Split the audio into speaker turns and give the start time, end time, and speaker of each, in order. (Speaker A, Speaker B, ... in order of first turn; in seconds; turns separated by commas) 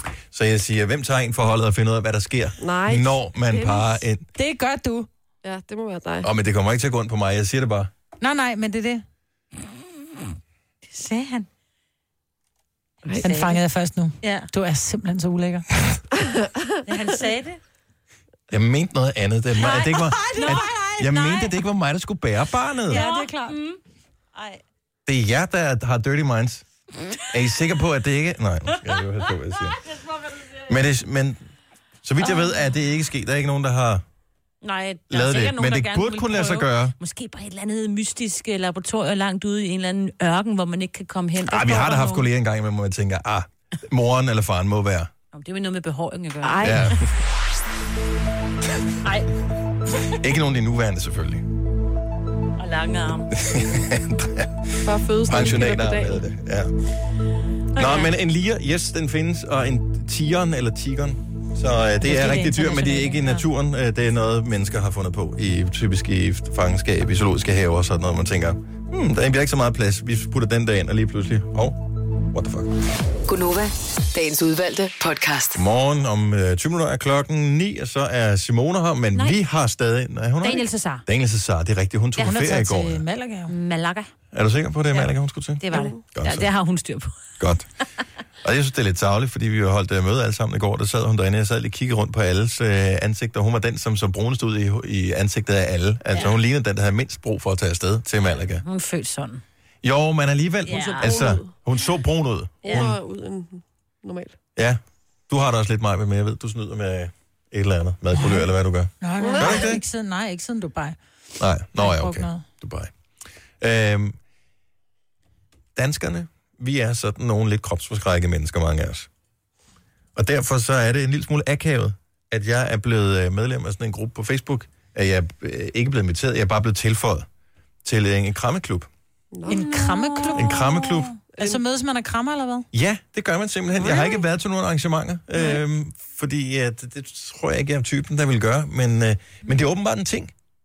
Speaker A: 0.3-4.3, Speaker B: 2.6-4.0, Speaker C: 4.3-5.1, Speaker B: 5.4-6.3, Speaker A: 6.2-7.9, Speaker C: 8.2-9.1, Speaker D: 10.9-11.5, Speaker D: 13.1-13.6, Speaker C: 13.2-15.7, Speaker D: 14.2-14.5, Speaker B: 16.2-16.6, Speaker D: 16.9-17.6, Speaker A: 18.5-23.0, Speaker D: 19.6-21.6, Speaker C: 20.3-20.8, Speaker C: 22.9-23.6, Speaker D: 22.9-23.8, Speaker D: 24.3-24.6, Speaker A: 25.1-26.6, Speaker A: 27.3-29.8, Speaker A: 30.7-31.4, Speaker A: 32.0-34.0, Speaker D: 32.2-32.6, Speaker D: 34.6-42.3, Speaker A: 35.1-36.9, Speaker A: 41.5-45.1, Speaker D: 45.3-47.0, Speaker B: 46.4-47.0, Speaker A: 46.6-47.1, Speaker D: 49.0-49.3, Speaker A: 50.1-51.4, Speaker D: 52.6-53.3, Speaker A: 53.3-56.7, Speaker B: 54.8-56.2, Speaker D: 57.7-58.1, Speaker A: 57.8-72.7, Speaker D: 62.0-63.4, Speaker E: 73.3-75.6, Speaker A: 75.5-83.0, Speaker D: 80.4-81.0, Speaker C: 82.2-83.5, Speaker D: 83.5-84.1, Speaker A: 84.3-85.6, Speaker D: 84.9-87.3, Speaker B: 85.7-86.0, Speaker A: 86.1-86.5, Speaker A: 87.4-87.7, Speaker A: 88.4-98.6, Speaker D: 98.6-99.4, Speaker A: 99.8-103.0, Speaker D: 100.6-101.2, Speaker B: 100.7-101.5, Speaker D: 102.6-102.9, Speaker B: 102.7-104.4, Speaker A: 104.5-109.8, Speaker C: 108.2-108.4, Speaker C: 109.0-111.0, Speaker B: 109.2-109.6, Speaker A: 111.4-112.9, Speaker C: 111.8-112.4, Speaker A: 113.6-114.2, Speaker A: 115.7-119.1, Speaker A: 120.2-127.3, Speaker A: 127.8-128.9, Speaker B: 129.3-129.6, Speaker C: 129.5-130.7, Speaker D: 129.5-131.1, Speaker A: 130.3-131.1, Speaker C: 131.4-132.7, Speaker A: 132.7-140.3, Speaker D: 133.8-134.1